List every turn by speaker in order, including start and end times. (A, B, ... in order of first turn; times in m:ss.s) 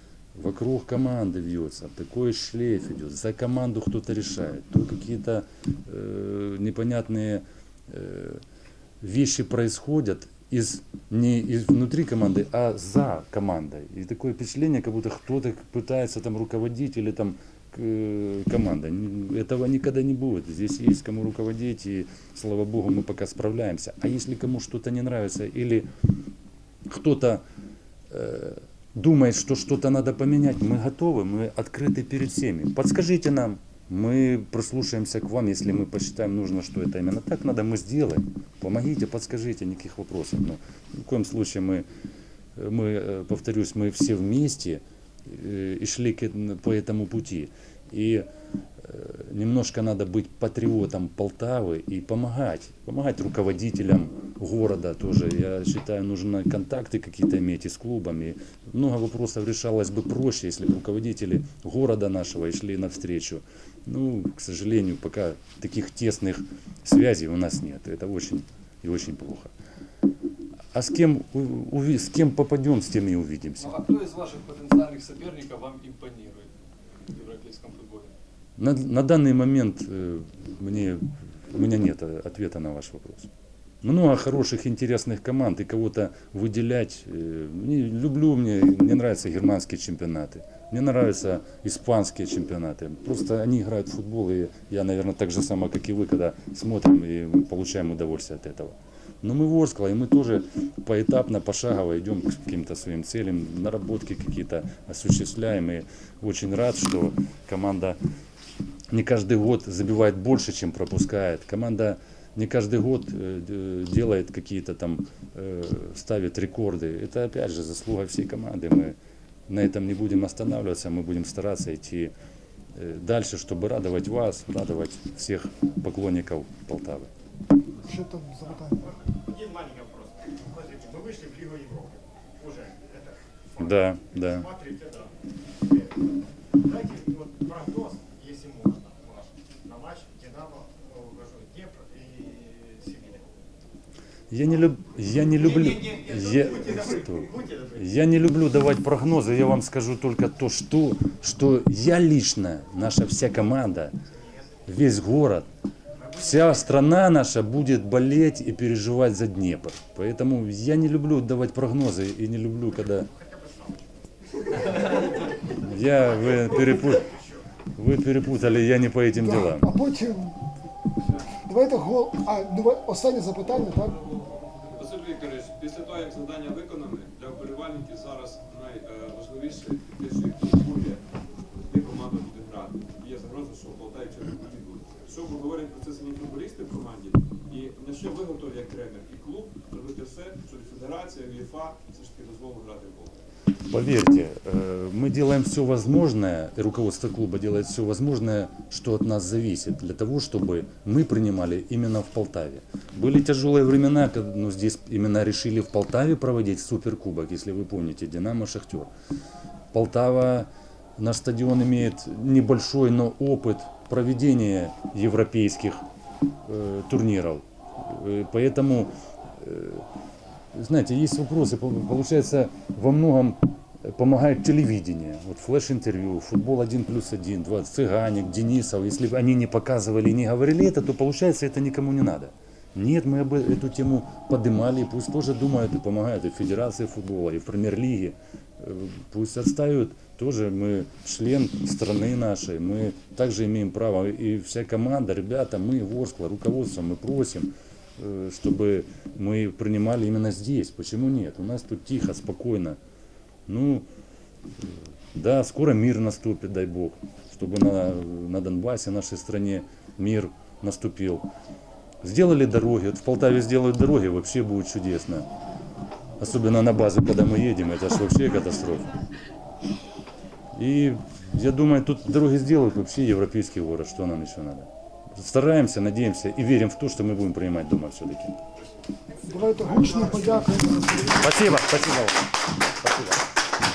0:00.4-0:08.4 A
0:09.0-0:25.9 A
0:26.9-0:27.4 A
0:28.1-0:41.9 A
0:42.6-0:48.3 A
0:48.8-1:09.5 A
1:10.7-1:13.8 A
1:13.6-1:16.5 B
1:17.1-1:18.1 B
1:18.6-1:23.3 A
1:23.8-1:48.0 A
1:48.9-1:59.0 A
1:59.5-2:02.1 A
2:02.8-2:07.1 A
2:07.8-2:08.9 C
2:09.0-2:13.1 D
2:13.6-2:14.5 A
2:14.3-2:16.1 D
2:16.6-2:23.3 D
2:24.3-2:34.0 A
2:25.6-2:27.8 D
2:34.7-2:35.5 A
2:36.2-2:43.1 A
2:43.1-2:43.9 D
2:45.5-2:47.2 A
2:47.8-2:49.7 A
2:49.2-2:50.4 C
2:51.5-2:54.1 C
2:54.7-3:01.0 E
3:01.7-3:13.2 E
3:13.7-3:28.9 A
3:29.7-3:35.8 A
3:36.4-3:39.9 A
3:40.5-4:12.8 A
4:13.5-4:13.9 A
4:15.1-4:21.3 A
4:22.0-4:25.3 A
4:26.2-4:29.0 A
4:30.5-4:38.4 A
4:39.2-4:41.2 C
4:39.5-4:41.0 E
4:41.1-4:43.2 A